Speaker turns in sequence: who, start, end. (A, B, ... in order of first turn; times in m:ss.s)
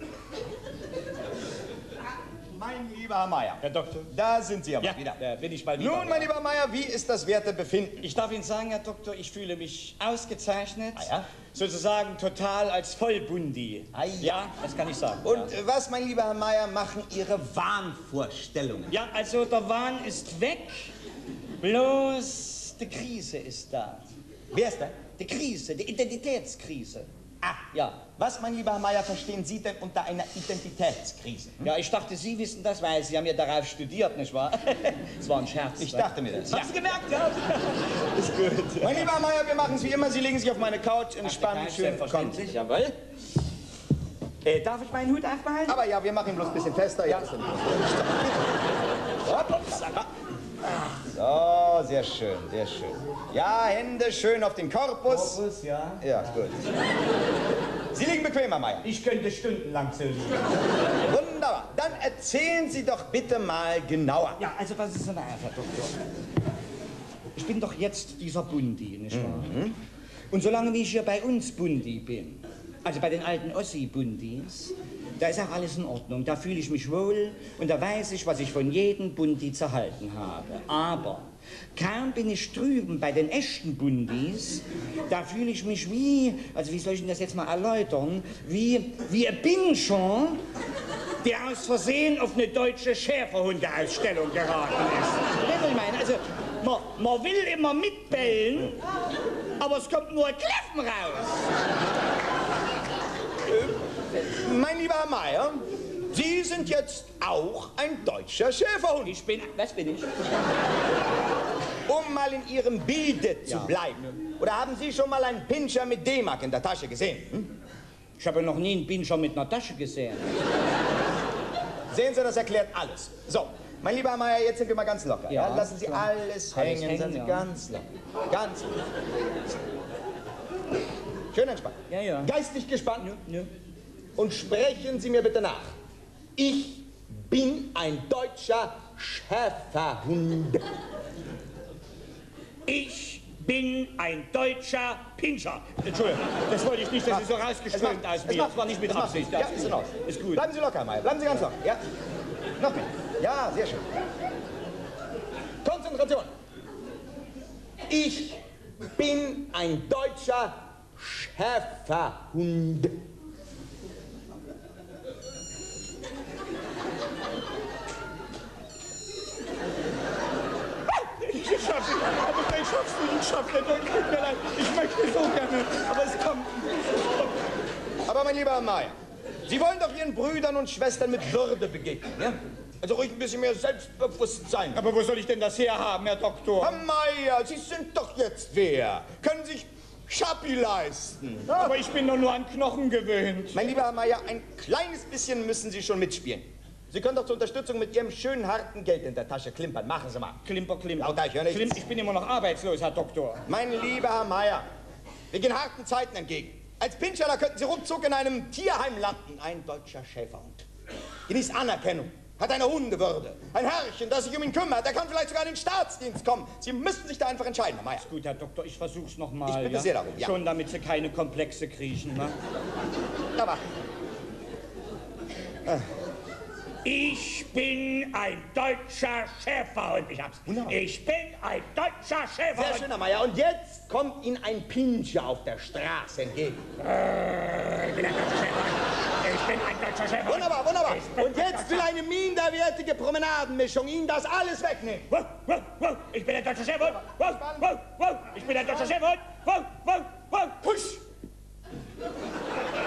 0:02.5-0:05.2 A
0:03.6-0:04.1 B
0:04.8-0:06.3 B
0:05.8-0:08.0 A
0:08.0-0:15.5 B
0:11.0-0:11.3 A
0:13.9-0:14.4 A
0:15.2-0:18.9 A
0:18.9-0:20.9 B
0:21.6-0:24.1 B
0:24.5-0:25.0 A
0:25.2-0:27.1 B
0:27.4-0:31.7 A
0:27.7-0:28.0 B
0:31.6-0:39.1 B
0:35.8-0:36.7 A
0:38.8-0:42.4 A
0:41.2-0:42.9 B
0:44.4-0:45.8 B
0:45.7-0:48.0 A
0:47.1-0:47.3 B
0:49.2-0:50.1 A
0:49.5-0:50.0 B
0:51.1-0:55.4 A
0:55.0-0:56.4 B
0:56.0-0:56.6 A
0:57.9-0:58.8 A
0:58.8-1:00.6 B
1:01.0-1:04.4 A
1:04.4-1:05.9 B
1:07.3-1:09.6 B
1:09.1-1:09.8 A
1:10.3-1:21.2 B
1:21.7-1:30.4 B
1:31.2-1:38.8 B
1:39.6-1:41.4 B
1:43.5-1:49.2 A
1:49.0-1:50.1 B
1:51.8-1:57.5 A
1:53.5-1:53.7 B
1:58.2-2:00.3 B
2:01.9-2:08.8 A
2:05.3-2:07.5 B
2:11.3-2:13.1 A
2:11.9-2:12.3 B
2:13.0-2:13.5 B
2:14.2-2:15.7 A
2:16.4-2:20.7 A
2:22.6-2:30.4 B
2:27.0-2:31.8 A
2:32.6-2:33.8 A
2:35.6-2:36.3 A
2:37.9-2:38.4 A
2:38.9-2:43.0 A
2:50.9-2:57.3 B
2:58.0-2:58.9 A
2:59.5-3:04.8 A
3:04.7-3:06.8 B
3:06.6-3:11.8 A
3:11.5-3:13.6 B
3:13.5-3:20.4 A
3:20.4-3:23.4 B
3:21.0-3:21.8 A
3:23.5-3:24.6 A
3:25.3-3:30.6 A
3:31.3-3:38.1 A
3:38.0-3:42.4 B
3:39.4-3:40.3 A
3:43.4-3:43.6 A
3:46.8-3:52.9 B
3:50.4-3:50.8 A
3:52.5-3:56.6 A
3:56.8-4:01.9 B
4:00.2-4:05.1 A
4:05.1-4:11.0 B
4:07.0-4:07.7 A